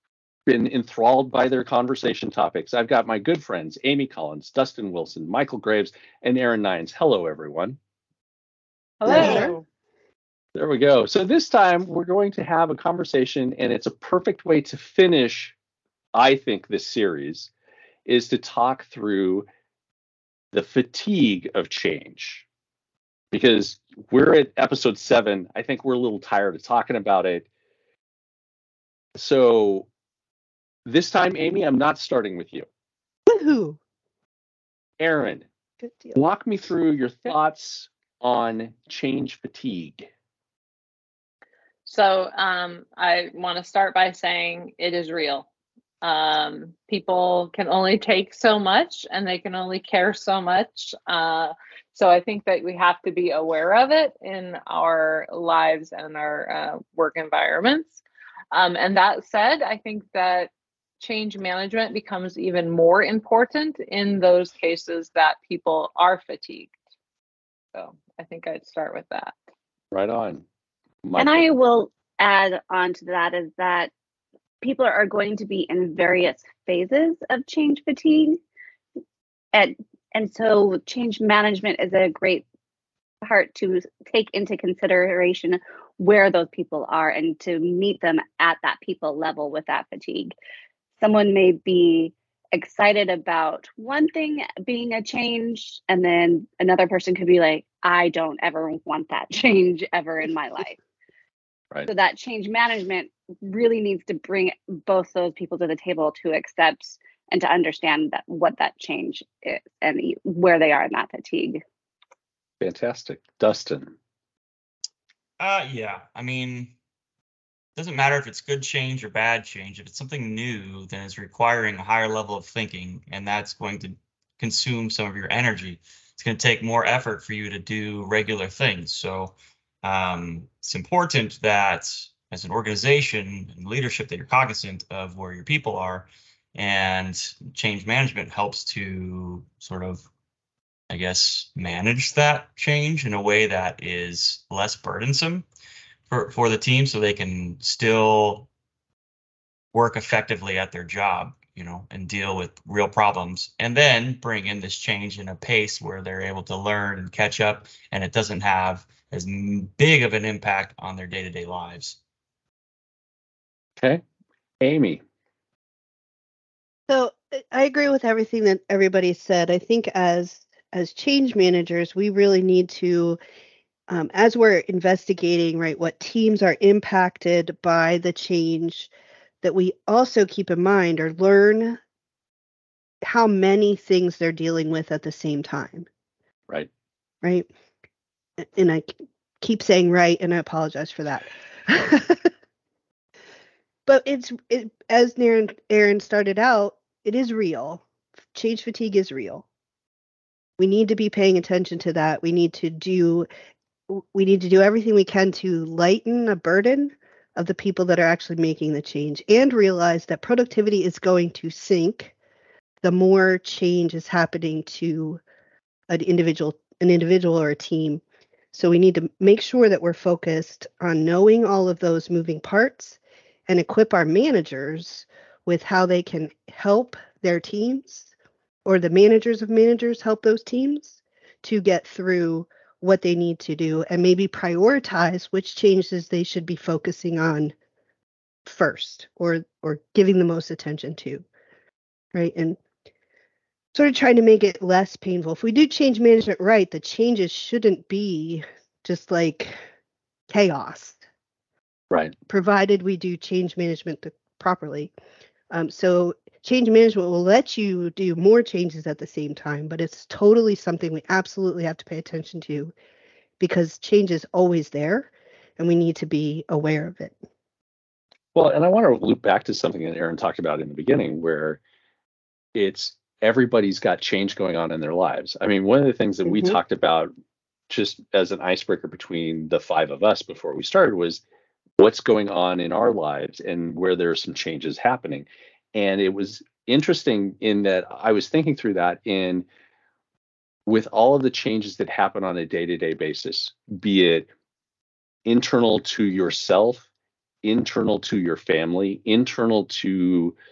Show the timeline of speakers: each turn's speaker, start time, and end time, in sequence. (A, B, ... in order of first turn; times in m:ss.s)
0:00.5-0:07.8 A
0:09.0-0:09.6 B
0:09.0-0:09.5 C
0:09.1-0:09.4 A
0:10.5-0:15.5 A
0:16.1-0:17.5 A
0:18.0-0:19.5 A
0:20.5-0:22.4 A
0:23.3-0:27.5 A
0:29.2-0:29.9 A
0:30.8-0:32.7 A
0:33.3-0:33.8 C
0:35.0-0:35.5 A
0:35.8-0:36.2 C
0:36.2-0:40.1 A
0:41.8-0:45.5 B
0:46.0-0:58.0 B
0:58.5-1:06.7 B
1:07.7-1:09.3 B
1:09.9-1:10.4 A
1:11.0-1:11.6 A
1:11.2-1:13.9 D
1:14.6-1:18.4 D
1:19.5-1:22.4 D
1:23.2-1:30.3 D
1:31.0-1:40.8 D
1:41.9-1:51.6 D
1:52.6-1:53.9 A
1:55.4-1:56.7 E
1:57.8-2:20.1 E
2:20.9-2:25.4 E
2:26.1-2:28.5 E
2:29.7-2:42.0 E
2:44.6-2:45.0 A
2:46.9-2:53.2 C
2:53.9-2:58.9 C
2:59.4-3:01.8 C
3:03.0-3:05.9 C
3:08.4-3:12.3 C
3:13.9-3:19.4 C
3:20.6-3:23.3 C
3:23.9-3:32.1 C
3:32.8-3:35.2 C
3:35.9-3:38.0 C
3:38.5-3:48.1 C
3:48.6-3:57.5 C
3:58.4-4:01.2 C
4:02.1-4:02.6 C
4:03.7-4:09.6 C
4:10.3-4:11.0 C
4:12.3-4:14.9 C
4:15.5-4:22.7 C
4:23.4-4:27.2 C
4:28.3-4:31.6 A
4:32.5-4:37.1 A
4:36.2-4:36.6 C
4:37.7-4:41.2 A
4:41.8-4:49.5 A
4:50.7-4:54.3 A
4:55.2-4:56.9 A
4:57.4-5:00.4 A